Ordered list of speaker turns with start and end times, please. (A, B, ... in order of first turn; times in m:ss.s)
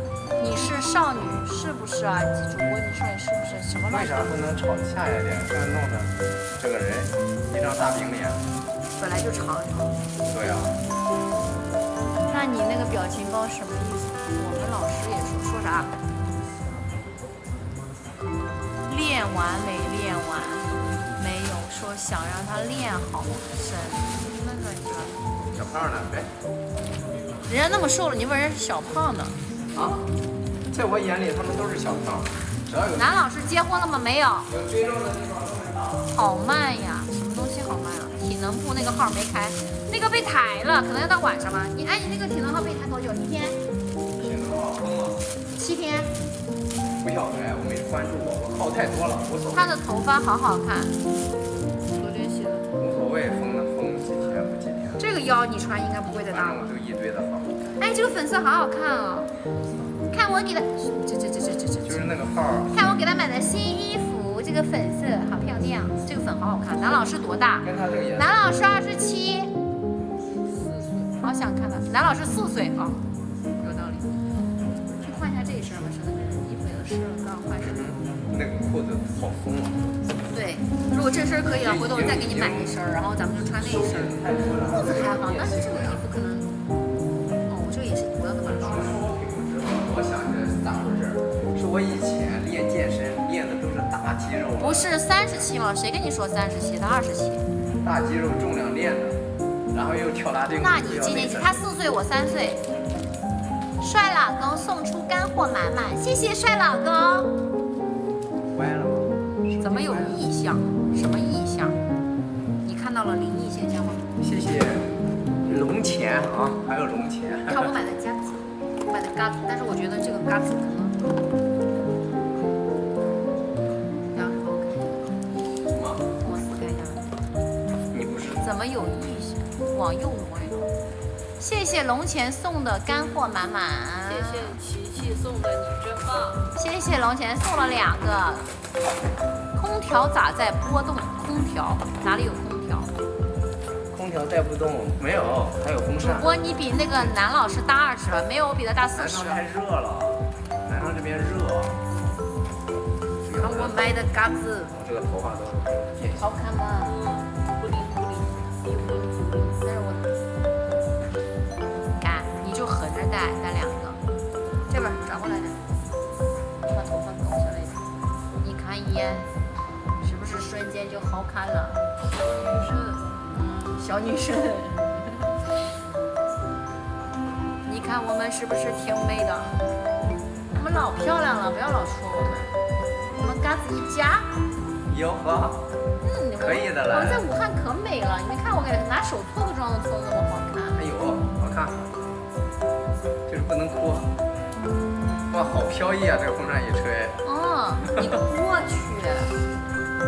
0:00.4-0:04.3 A
0:03.9-0:08.4 B
0:09.0-0:10.0 A
0:10.3-0:10.7 B
0:12.3-0:15.9 A
0:18.9-0:25.1 A
0:25.5-0:26.3 B
0:27.5-0:29.4 A
0:29.8-0:30.0 B
0:30.7-0:33.1 B
0:33.0-0:34.5 A
0:34.5-0:36.1 B
0:36.1-0:43.6 A
0:44.2-0:45.2 B
0:45.6-0:46.1 A
0:47.0-0:49.7 B
0:49.5-0:50.9 A
0:51.9-0:52.7 C
0:52.8-0:55.0 B
0:55.0-0:56.7 A
0:56.3-0:57.5 B
0:57.8-0:59.3 A
1:00.1-1:02.1 A
1:01.8-1:02.8 B
1:02.7-1:09.5 A
1:07.6-1:08.4 B
1:10.5-1:11.2 C
1:11.2-1:13.0 A
1:13.6-1:14.1 A
1:15.0-1:17.8 A
1:17.6-1:19.8 B
1:20.3-1:26.5 A
1:21.6-1:22.7 B
1:23.6-1:26.0 B
1:27.5-1:29.0 A
1:28.6-1:34.9 B
1:34.6-1:37.5 A
1:37.8-1:39.2 B
1:39.7-1:41.6 B
1:40.6-1:42.6 A
1:43.8-1:47.3 A
1:48.5-1:50.2 B
1:49.6-1:51.8 A
1:52.6-1:54.0 A
1:54.2-1:54.9 B
1:55.5-1:57.7 B
1:57.5-2:01.2 A
2:04.1-2:05.1 A
2:05.7-2:06.0 B
2:06.2-2:07.1 A
2:07.9-2:08.4 B
2:08.4-2:10.7 A
2:11.4-2:14.6 A
2:14.0-2:16.5 C
2:16.6-2:18.4 A
2:19.6-2:22.9 A
2:23.9-2:26.3 B
2:26.0-2:29.4 A
2:26.9-2:27.2 B
2:29.0-2:31.8 B
2:33.2-2:34.0 B
2:33.4-2:34.7 A
2:34.7-2:36.3 B
2:36.2-2:36.9 A
2:36.8-2:39.6 C
2:39.6-2:40.0 A
2:42.0-2:44.0 A
2:44.7-2:45.6 A
2:46.7-2:47.8 A
2:48.4-2:49.3 A
2:50.0-2:51.8 A
2:52.2-2:53.1 C
2:53.3-2:55.3 A
2:57.7-2:59.5 A
3:00.5-3:02.5 A
3:03.2-3:04.3 A
3:04.9-3:05.6 B
3:06.0-3:10.8 A
3:06.4-3:07.2 B
3:10.8-3:11.8 B
3:13.3-3:14.1 B
3:15.3-3:17.2 B
3:17.2-3:19.3 A